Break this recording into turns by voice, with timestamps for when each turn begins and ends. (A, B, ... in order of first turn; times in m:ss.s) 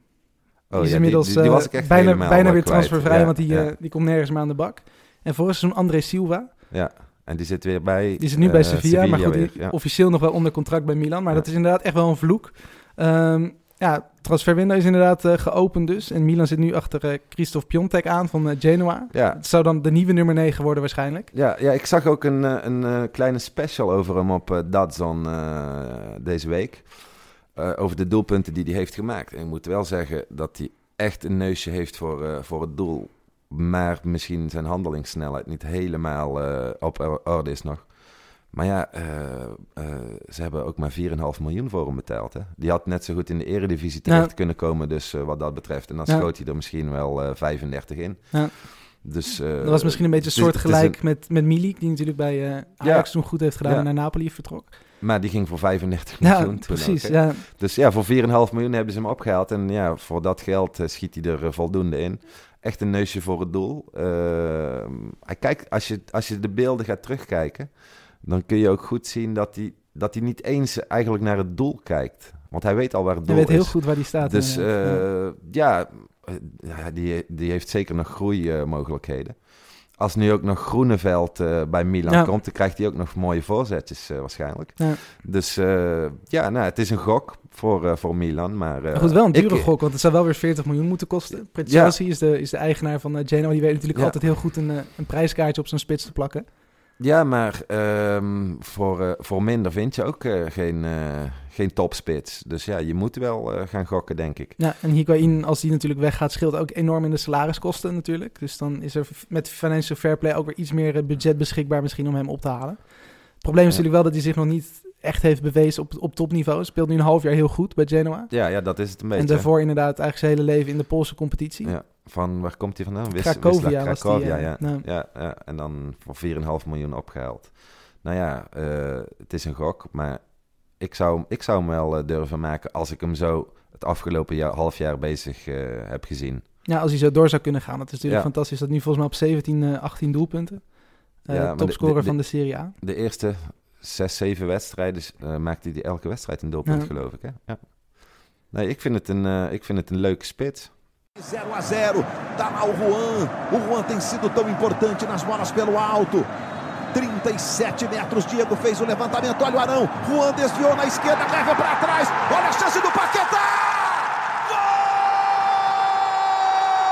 0:00.7-0:03.7 A
0:00.8-0:06.5 B
0:06.7-0:09.8 A
0:08.2-0:21.3 B
0:19.1-0:19.4 A
0:21.3-0:51.0 A
0:44.1-0:44.3 B
0:48.3-0:54.8 B
0:52.8-0:53.9 A
0:55.0-1:07.7 A
0:56.2-0:57.4 B
1:08.2-1:29.7 A
1:13.3-1:15.0 B
1:29.0-1:36.4 B
1:31.7-1:32.0 A
1:37.0-1:44.6 A
1:44.6-1:58.6 B
1:58.3-1:59.5 A
1:59.1-2:01.8 B
2:01.6-2:16.5 A
2:03.1-2:04.8 B
2:16.7-2:22.7 B
2:18.0-2:18.3 A
2:21.3-2:30.7 A
2:26.7-2:26.9 B
2:31.2-2:36.3 C
2:36.9-2:44.1 C